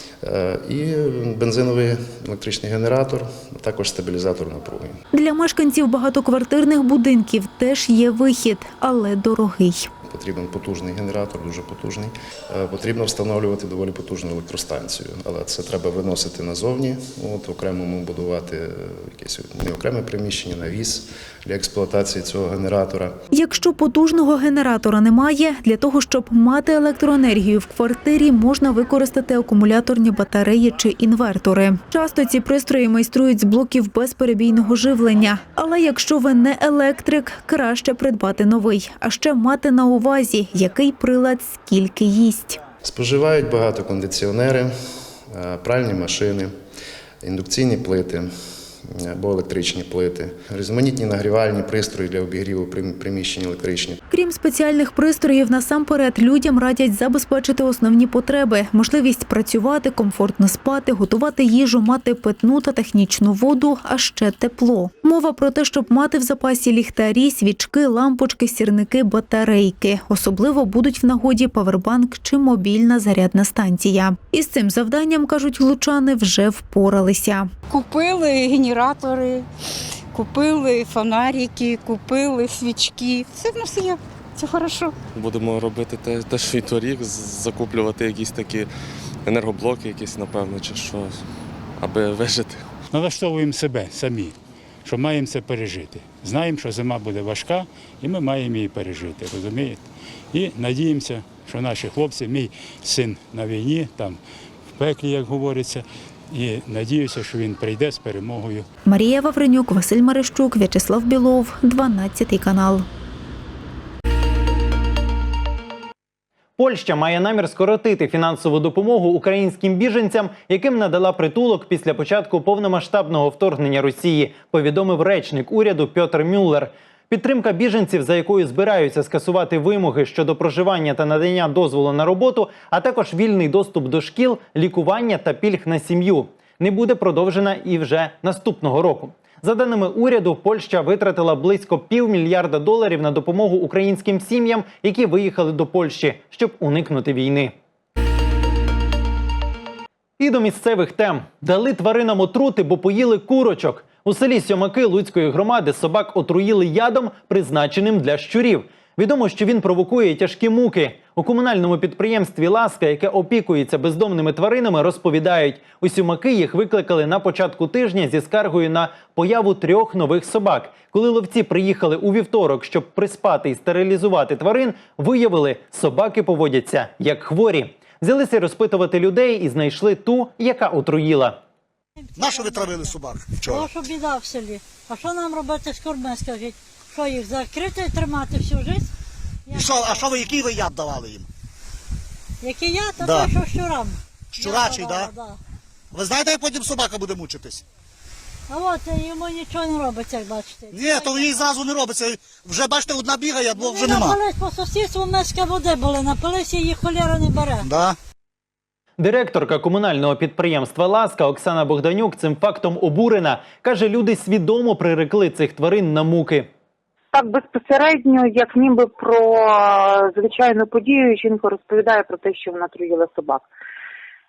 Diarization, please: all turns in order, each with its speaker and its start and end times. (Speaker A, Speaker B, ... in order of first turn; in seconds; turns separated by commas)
Speaker A: 0.2-4.9, Speaker B: 5.1-9.9, Speaker A: 10.1-23.1, Speaker B: 23.3-42.6, Speaker A: 42.8-44.7, Speaker A: 45.3-46.5, Speaker A: 47.2-48.3, Speaker A: 48.9-54.0, Speaker B: 54.1-77.5, Speaker C: 77.7-79.5, Speaker C: 80.1-85.0, Speaker D: 85.1-88.7, Speaker D: 89.2-92.7, Speaker E: 92.9-94.3, Speaker E: 94.8-104.2, Speaker E: 104.8-108.6, Speaker B: 108.8-112.8, Speaker F: 116.6-147.5, Speaker F: 150.2-181.4, Speaker G: 182.0-188.9, Speaker H: 182.2-183.7, Speaker G: 189.5-190.4, Speaker H: 190.0-191.0, Speaker G: 192.4-195.4, Speaker H: 194.4-194.8, Speaker H: 196.7-197.6, Speaker G: 198.5-201.6, Speaker H: 201.8-203.9, Speaker G: 203.5-207.7, Speaker F: 209.0-216.5, Speaker I: 217.1-223.4